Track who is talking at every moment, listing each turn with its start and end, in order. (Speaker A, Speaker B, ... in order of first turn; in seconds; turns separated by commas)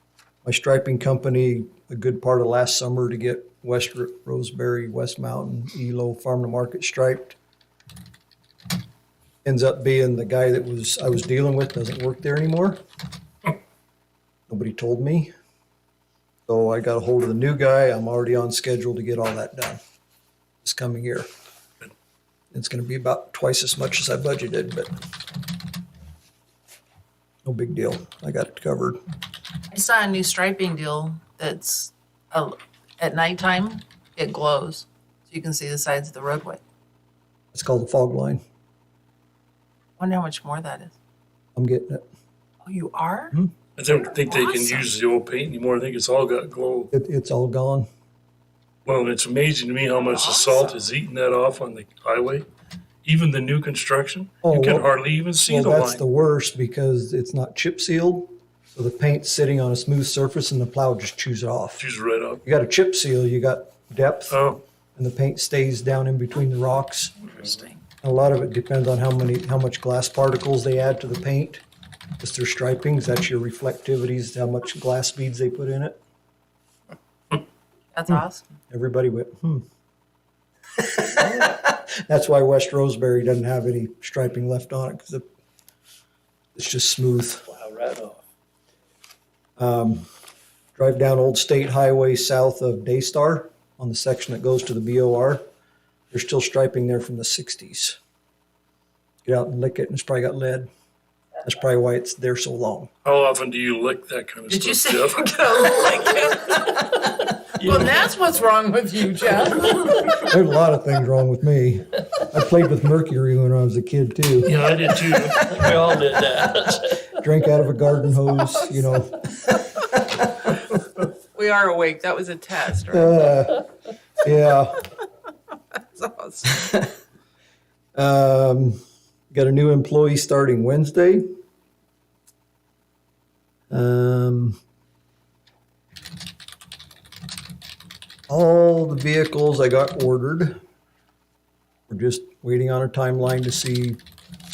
Speaker A: 0.4-7.4, Speaker A: 9.4-12.8, Speaker A: 14.5-15.3, Speaker A: 16.5-19.8, Speaker A: 20.6-21.3, Speaker A: 22.5-24.9, Speaker A: 27.4-29.0, Speaker B: 29.7-36.6, Speaker A: 37.5-38.4, Speaker B: 40.0-41.0, Speaker A: 41.6-42.0, Speaker B: 42.6-43.4, Speaker C: 43.8-46.9, Speaker B: 44.2-44.9, Speaker A: 46.9-47.9, Speaker C: 48.9-52.5, Speaker B: 50.0-50.8, Speaker C: 53.0-56.0, Speaker A: 54.4-61.8, Speaker C: 61.8-62.4, Speaker A: 62.5-64.4, Speaker C: 64.3-64.6, Speaker A: 65.0-67.3, Speaker B: 67.4-67.8, Speaker A: 68.0-71.6, Speaker A: 72.2-76.0, Speaker B: 77.9-78.6, Speaker A: 78.7-79.6, Speaker A: 80.8-85.2, Speaker A: 86.5-87.5, Speaker D: 87.5-88.2, Speaker A: 89.6-90.1, Speaker A: 90.8-95.5, Speaker A: 96.1-98.0, Speaker A: 99.2-100.7, Speaker A: 101.4-102.9, Speaker C: 103.0-105.4, Speaker B: 104.5-110.2, Speaker D: 107.6-108.1, Speaker A: 110.2-114.5, Speaker C: 114.5-115.6, Speaker D: 115.5-117.2, Speaker A: 117.2-120.6, Speaker B: 121.3-123.3, Speaker A: 122.9-123.6, Speaker A: 124.2-124.8, Speaker B: 125.7-126.7, Speaker A: 126.5-126.9, Speaker A: 128.0-128.8, Speaker A: 129.3-131.2, Speaker A: 133.7-134.6, Speaker A: 138.3-140.6, Speaker A: 141.9-144.0